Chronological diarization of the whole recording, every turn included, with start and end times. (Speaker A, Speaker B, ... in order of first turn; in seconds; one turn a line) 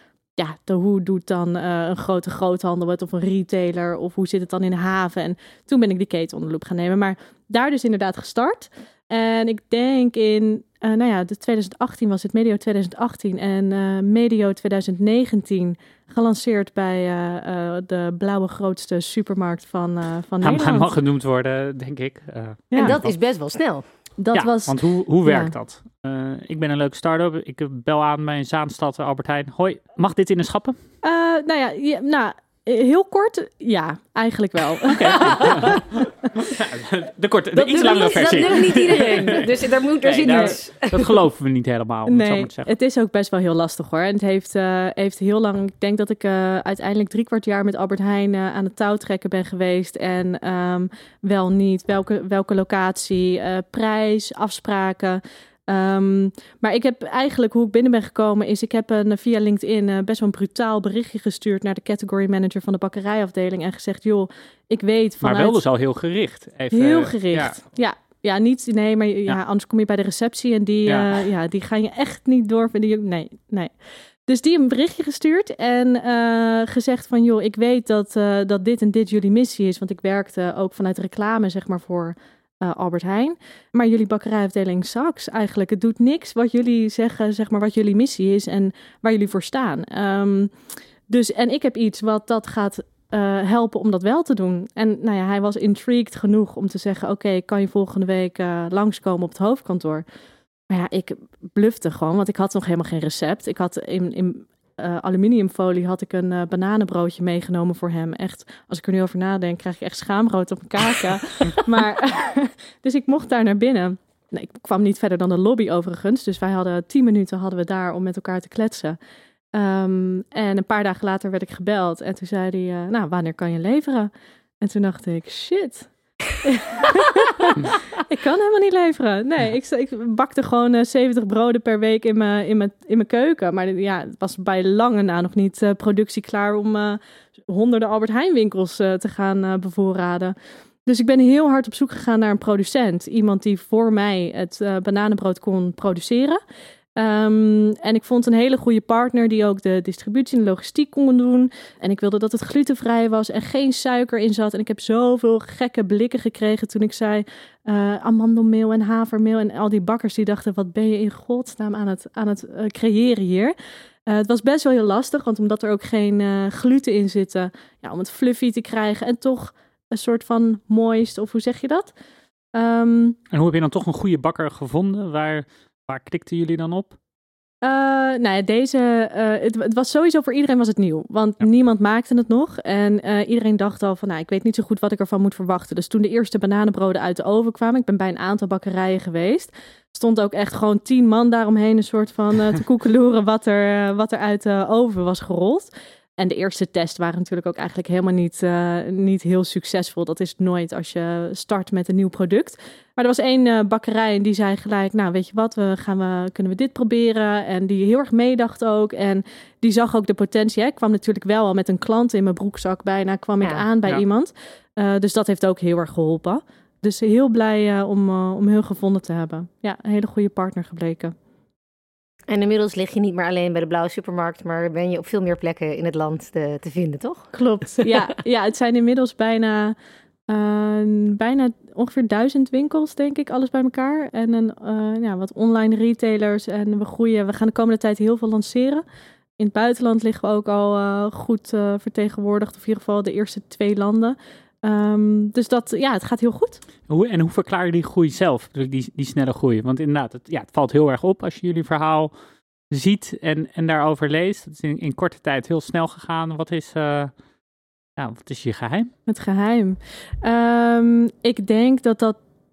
Speaker A: 0.4-20.9
Speaker B: 20.4-23.1
Speaker A: 22.7-23.0
Speaker C: 22.8-23.8
Speaker A: 24.2-25.5
Speaker B: 24.3-30.8
Speaker A: 31.0-35.8
Speaker B: 34.9-42.7
Speaker C: 37.5-41.1
Speaker A: 42.0-65.6
Speaker B: 65.2-67.6
Speaker A: 66.7-73.7
Speaker B: 70.9-71.2
Speaker A: 74.3-90.5
Speaker A: 91.1-100.0
Speaker A: 100.7-119.0
Speaker A: 119.5-140.3
Speaker A: 140.8-146.4
Speaker A: 146.9-163.5
Speaker A: 164.1-171.9
Speaker A: 172.5-173.2
Speaker B: 173.3-176.9
Speaker A: 177.6-221.1
Speaker C: 222.3-227.9
Speaker A: 227.3-229.8
Speaker A: 230.3-238.8
Speaker A: 239.4-246.6
Speaker B: 246.9-252.1
Speaker B: 252.7-257.1
Speaker B: 258.0-258.9
Speaker A: 259.1-262.2